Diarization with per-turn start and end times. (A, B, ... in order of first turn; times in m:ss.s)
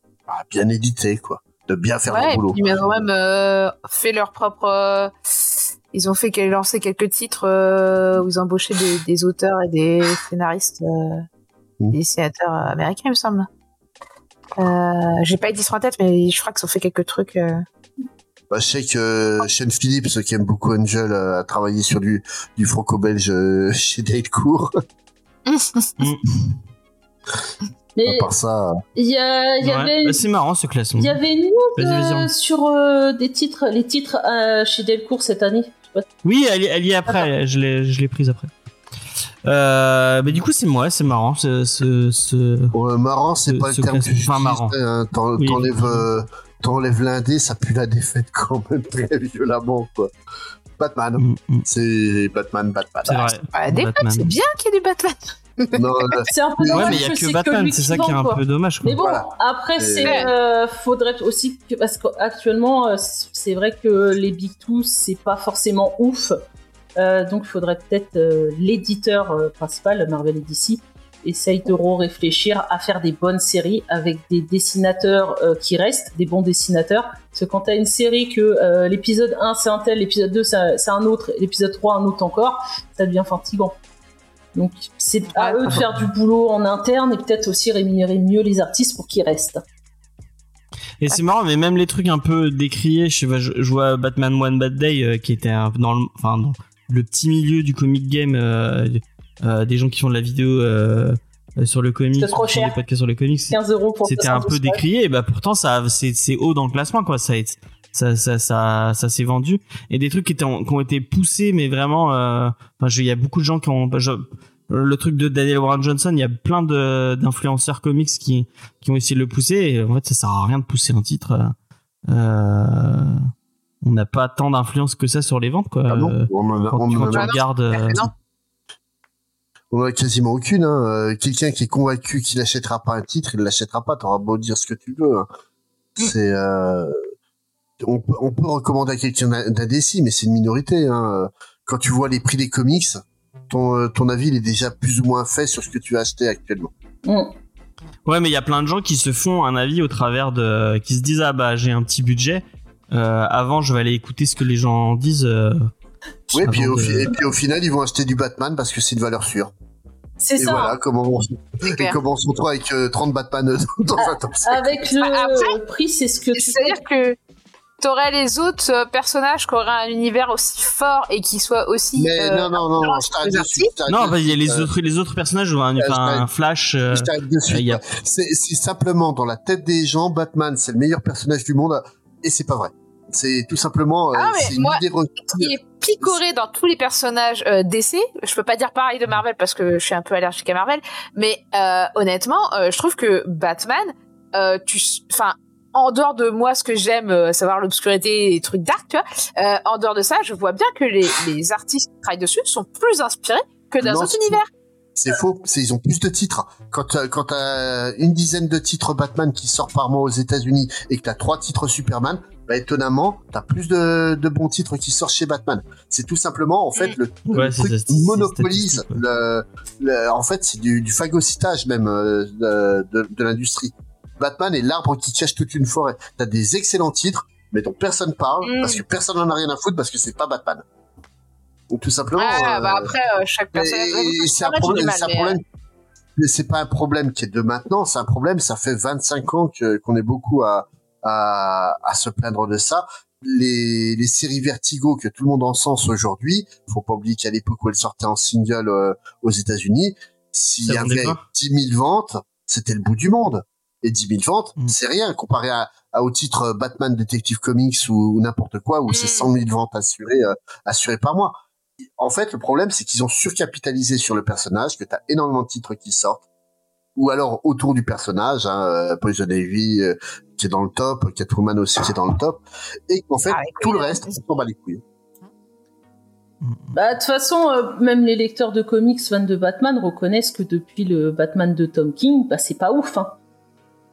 0:00.3-0:02.9 A
0:02.1-0:05.4 B
0:05.9-0:11.3 B
0:11.9-0:13.5 B
0:14.6-0:17.7 B
0:18.5-0:24.7 A
0:25.5-0:25.9 B
0:26.0-0:26.4 C
0:28.0-0:28.3 D
0:28.0-0:28.8 A
0:29.0-0:30.2 D
0:29.6-0:31.2 C
0:31.0-0:36.1 D
0:31.8-0:32.3 C
0:36.2-0:38.5 C
0:39.4-0:42.7 C
0:42.7-0:50.1 A
0:43.5-0:44.7 C
0:45.4-0:46.1 C
0:50.8-0:53.2 A
0:51.2-0:51.7 C
0:53.1-0:54.4 C
0:53.1-0:56.2 B
0:55.8-0:57.0 A
0:56.3-1:06.4 D
0:56.7-0:59.0 C
0:59.0-0:59.3 A
0:59.8-1:00.3 A
1:07.0-1:23.8 D
1:24.6-1:29.6 D
1:25.4-1:25.8 B
1:31.0-2:01.6 C
1:42.2-1:42.8 D
1:43.5-1:44.8 D
2:02.1-2:03.2 C
2:03.8-2:08.1 C
2:05.9-2:07.3 A
2:07.1-2:08.1 B
2:09.7-2:15.3 A
2:16.0-2:17.0 A
2:17.8-2:26.7 A
2:27.1-2:27.3 D
2:28.1-2:35.7 C
2:36.3-2:37.2 C
2:36.3-2:39.5 A
2:40.2-2:40.8 D
2:40.4-2:44.9 A
2:41.6-2:42.0 B
2:44.0-2:46.8 D
2:45.0-2:45.5 B
2:46.4-2:47.2 B
2:47.8-2:53.7 B
2:52.0-2:54.7 A
2:53.9-2:57.8 C
2:55.8-2:56.3 A
2:56.9-3:06.2 A
3:04.1-3:24.5 B
3:23.8-3:24.4 A
3:25.0-3:50.6 A
3:37.3-3:39.0 C
3:48.4-3:48.8 B
3:51.7-3:52.9 A
3:52.2-3:55.4 B
3:53.5-3:55.4 A
3:56.2-4:21.4 A
4:10.7-4:11.2 C
4:18.9-4:19.3 B
4:22.0-4:26.2 A
4:27.0-4:34.8 A
4:33.3-4:34.1 B
4:36.4-4:36.8 C
4:36.7-4:43.2 D